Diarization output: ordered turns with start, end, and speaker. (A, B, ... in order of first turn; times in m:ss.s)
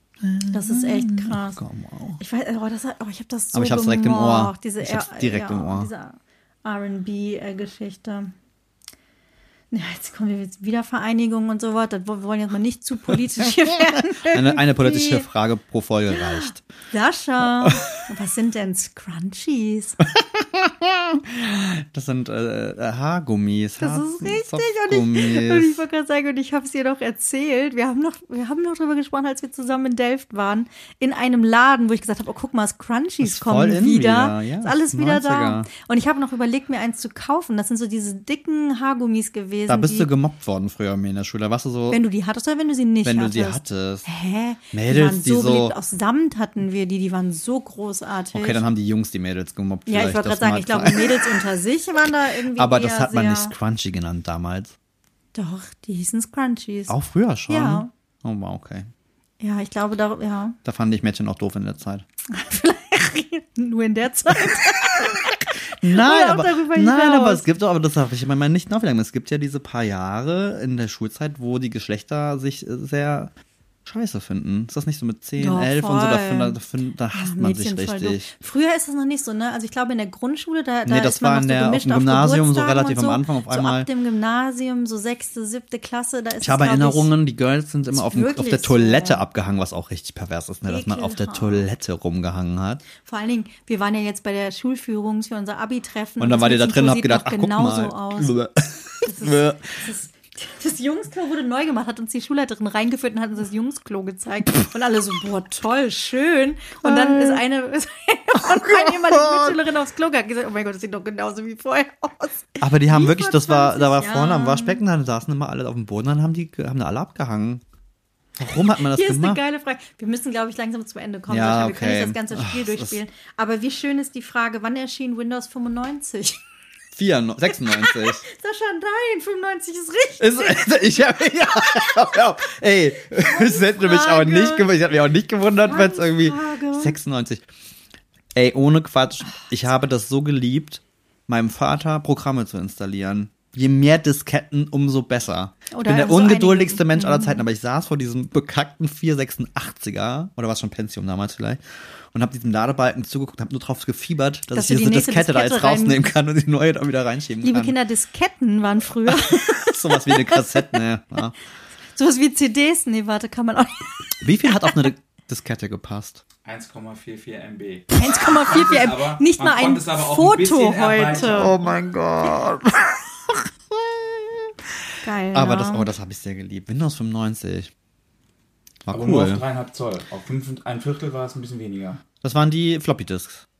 0:00.2-0:02.2 A
0:00.5-0:01.6 B
0:02.2-0:08.3 B
0:03.5-0:05.9 A
0:09.7-0:15.2 B
0:13.7-0:16.6 A
0:16.1-0:20.0 B
0:17.6-0:17.9 A
0:20.1-0:25.8 A
0:23.8-0:40.1 B
0:33.2-0:35.7 A
0:39.7-0:42.0 A
0:41.9-0:48.6 B
0:43.0-0:44.1 A
0:44.7-0:45.8 A
0:48.3-0:51.4 A
0:49.9-0:53.5 B
0:52.6-0:54.7 A
0:55.4-0:56.9 B
0:56.9-0:58.9 A
0:57.5-0:57.9 B
0:59.4-1:00.6 B
1:00.6-1:02.0 A
1:02.3-1:07.4 B
1:04.4-1:13.3 A
1:13.9-1:18.3 A
1:15.4-1:16.6 B
1:17.1-1:27.2 B
1:20.8-1:23.9 A
1:26.4-1:32.8 A
1:27.9-1:29.2 B
1:30.7-1:31.7 B
1:33.0-1:38.4 B
1:36.2-1:39.8 A
1:39.0-1:54.8 B
1:46.8-1:47.4 A
1:48.4-1:49.6 A
1:52.6-1:57.6 A
1:58.4-1:59.4 A
1:58.8-2:06.4 B
2:01.3-2:03.0 A
2:06.9-2:08.2 A
2:07.5-2:10.7 B
2:10.2-2:17.4 A
2:13.2-2:14.7 B
2:15.7-2:17.0 B
2:18.4-2:31.6 A
2:25.7-2:27.4 B
2:32.1-2:37.8 A
2:34.5-2:36.1 B
2:37.4-2:40.6 B
2:39.1-2:41.3 A
2:42.0-2:44.9 B
2:44.2-2:46.2 A
2:46.4-2:51.7 C
2:48.0-2:51.6 B
2:51.2-2:54.5 A
2:55.0-2:55.9 B
2:55.3-2:57.7 A
2:58.8-2:59.4 A
2:58.9-3:02.0 C
3:02.2-3:03.4 A